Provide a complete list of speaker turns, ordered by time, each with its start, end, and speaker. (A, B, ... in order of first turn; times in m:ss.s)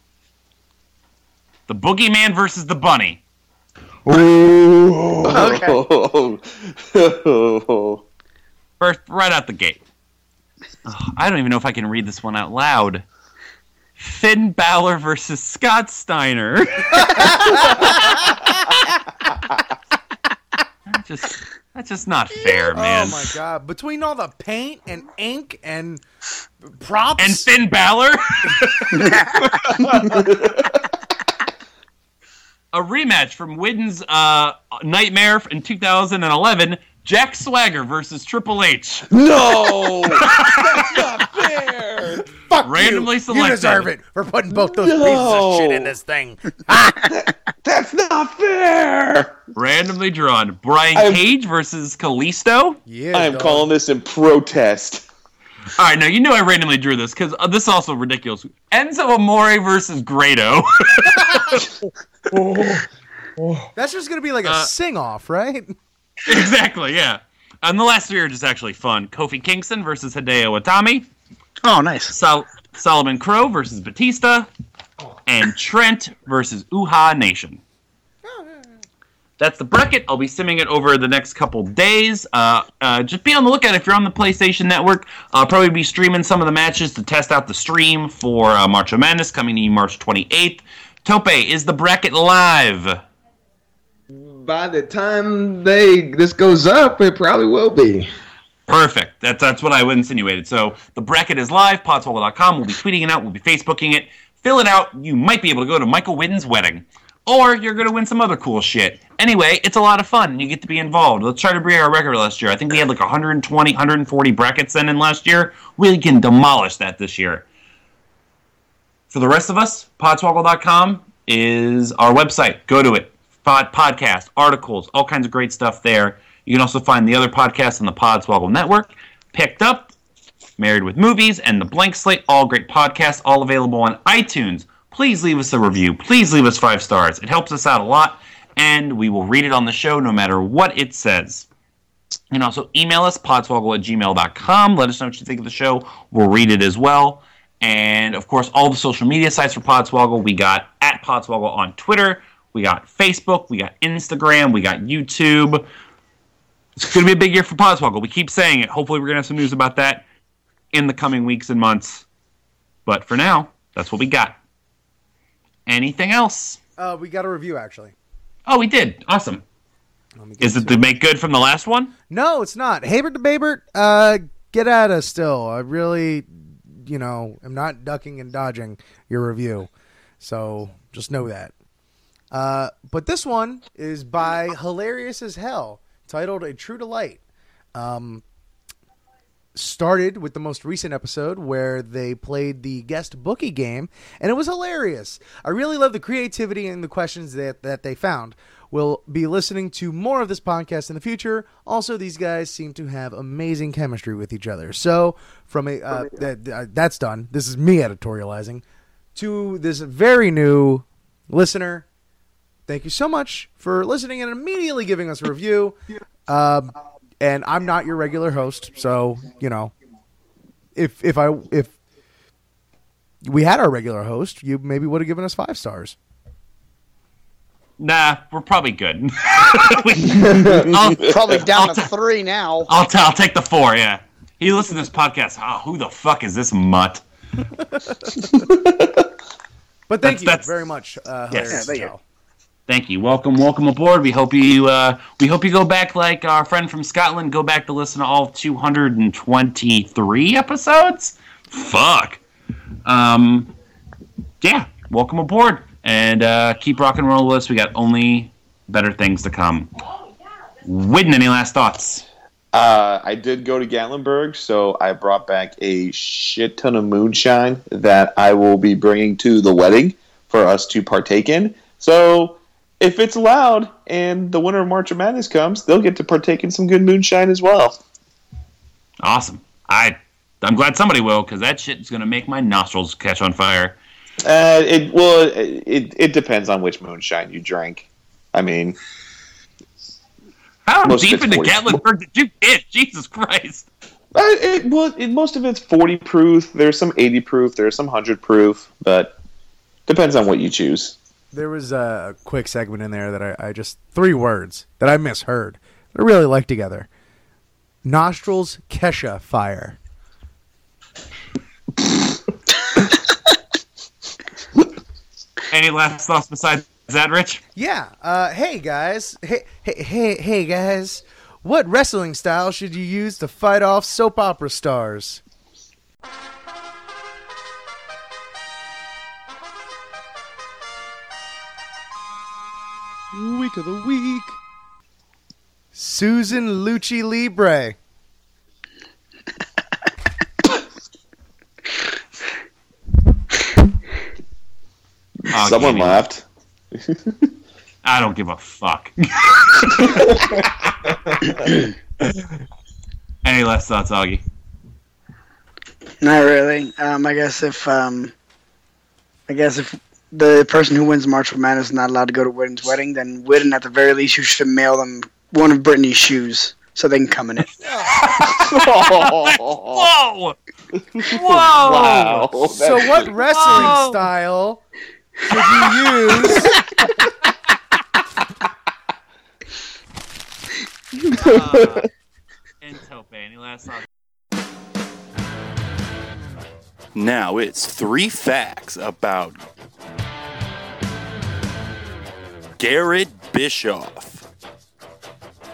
0:01.7-0:03.2 A
0:04.0-0:05.5 B
0:05.2-0:08.0 C
0:05.3-0:05.8 D
0:08.8-0:09.8 A
0:10.8-0:13.0 A
0:14.0-0:18.9 A
0:20.9-0:23.3 A
0:22.3-0:26.0 E
0:26.6-0:27.5 E
0:27.2-0:29.2 A
0:28.9-0:29.6 D
0:29.7-0:30.7 C
0:32.7-0:39.1 A
0:39.1-0:42.2 C
0:40.2-0:41.0 A
0:42.5-0:47.0 E
0:42.6-0:43.9 A
0:44.7-0:45.9 C
0:47.2-0:49.4 C
0:49.5-0:52.8 A
0:50.9-0:51.2 C
0:52.9-0:53.7 E
0:53.1-0:55.0 C
0:55.8-1:01.9 A
1:02.3-1:02.8 B
1:03.4-1:03.7 B
1:03.8-1:05.8 E
1:04.4-1:04.7 A
1:06.2-1:11.1 A
1:11.6-1:12.1 D
1:12.1-1:14.5 A
1:15.2-1:17.6 A
1:18.2-1:18.7 E
1:19.4-1:33.0 A
1:34.1-1:38.1 B
1:38.7-1:57.4 A
1:59.1-2:09.9 A
2:10.6-2:21.5 A
2:22.3-2:35.6 A
2:36.8-2:40.1 A
2:40.7-2:42.0 A
2:42.8-2:44.4 A
2:45.7-2:46.6 A
2:46.8-2:47.9 E
2:48.5-2:49.4 A
2:50.2-2:50.8 E
2:50.4-2:51.9 A
2:52.1-3:01.5 E
3:02.3-3:07.2 E
3:07.7-3:08.2 E
3:09.5-3:28.6 E
3:29.1-3:31.8 E
3:32.7-3:39.7 E
3:40.7-3:41.8 E
3:43.2-3:46.0 E
3:47.8-3:51.8 A
3:50.2-3:50.6 B
3:51.0-3:52.7 D
3:52.7-3:57.0 A
3:58.4-3:58.8 C
3:59.9-4:02.0 E
4:00.0-4:00.5 A
4:01.3-4:01.6 A
4:01.5-4:01.9 D
4:02.7-4:12.2 A
4:12.8-4:13.5 A
4:14.4-4:19.7 A
4:20.6-4:22.0 A
4:22.5-4:37.8 C
4:39.0-4:43.8 A
4:44.2-4:48.8 C
4:50.6-4:53.7 A
4:50.8-4:51.8 C
4:54.1-4:59.2 C
4:59.9-5:01.0 C
5:01.3-5:06.9 E
5:07.8-5:09.8 E
5:15.5-5:17.4 A
5:17.5-5:25.2 E
5:33.1-5:34.4 E
5:35.7-5:37.8 E
5:45.2-5:46.2 C
5:45.3-5:46.0 A
5:47.8-5:50.0 A
5:50.1-5:51.4 B
5:53.2-5:54.2 A
5:56.0-5:58.1 D
5:59.3-6:07.5 D
6:07.6-6:07.9 E
6:08.0-6:10.4 A
6:08.2-6:09.9 C
6:11.0-6:12.3 A
6:11.0-6:13.6 C
6:12.5-6:14.6 E
6:13.2-6:14.0 A
6:15.3-6:16.6 E
6:21.0-6:21.8 B
6:21.2-6:21.9 A
6:22.6-6:23.9 A
6:26.9-6:29.4 F
6:32.6-6:34.2 F